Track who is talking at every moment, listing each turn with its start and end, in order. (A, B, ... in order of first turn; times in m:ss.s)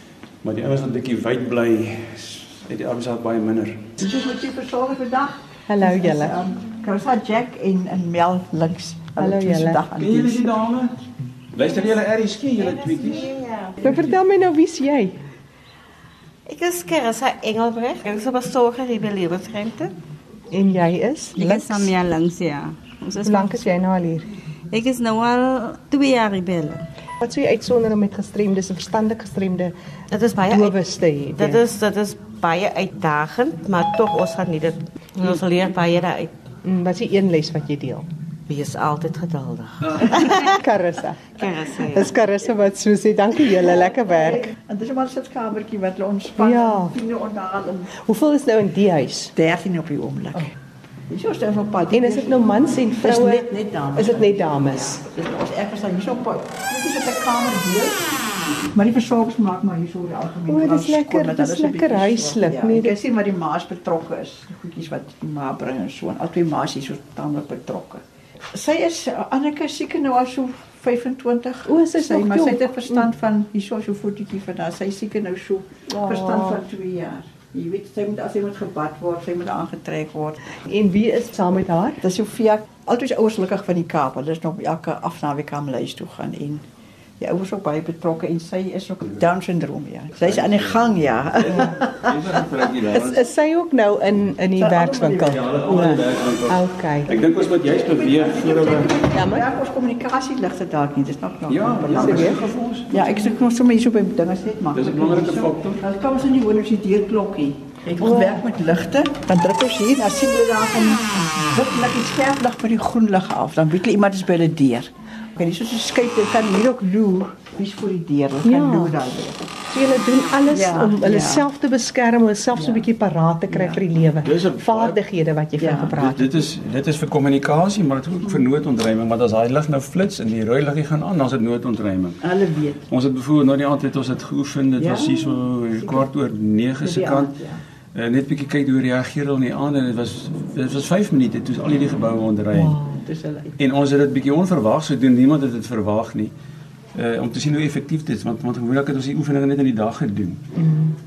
0:00.4-0:03.9 A
0:04.0-0:10.5 B
0:05.7-0:06.4 C
0:09.2-0:09.8 C
0:09.9-0:11.0 A
0:11.5-0:13.3 A
0:12.6-0:13.8 D
0:13.8-0:15.2 C
0:16.4-0:19.9 D
0:20.5-0:21.9 C
0:21.3-0:23.6 E
0:23.2-0:24.3 C
0:24.7-0:26.8 E
0:27.2-0:29.7 C
0:30.1-0:30.8 D
0:30.5-0:31.6 C
0:31.3-0:36.3 D
0:36.6-0:38.1 C
0:38.5-0:40.5 D
0:40.3-0:41.3 C
0:41.4-0:42.1 D
0:41.8-0:44.5 C
0:43.6-0:47.9 B
0:46.4-0:46.9 C
0:47.9-0:49.3 C
0:49.3-0:50.5 B
0:51.1-1:20.4 B
0:51.9-0:55.0 C
1:00.5-1:03.0 C
1:11.6-1:13.1 C
1:15.9-1:16.6 C
1:20.6-1:22.0 C
1:22.0-1:26.6 B
1:27.2-1:32.2 B
1:30.2-1:33.2 A
1:32.9-1:37.1 C
1:34.5-1:35.8 B
1:35.2-1:39.0 A
1:37.4-1:59.5 B
1:39.1-1:39.4 C
1:41.5-1:43.3 A
1:42.0-1:42.4 C
1:44.7-1:45.8 A
1:48.0-1:48.4 C
1:58.4-1:58.9 C
1:59.7-2:06.4 C
2:00.5-2:01.4 B
2:02.5-2:02.8 B
2:03.5-2:03.8 B
2:04.2-2:05.0 A
2:05.6-2:06.0 B
2:06.0-2:12.3 A
2:12.2-2:12.8 B
2:12.8-2:17.4 A
2:14.8-2:16.1 B
2:16.8-2:17.6 B
2:17.9-2:22.8 A
2:22.5-2:23.0 C
2:22.8-2:23.6 B
2:23.6-2:26.3 A
2:26.9-2:30.5 A
2:30.6-2:31.0 C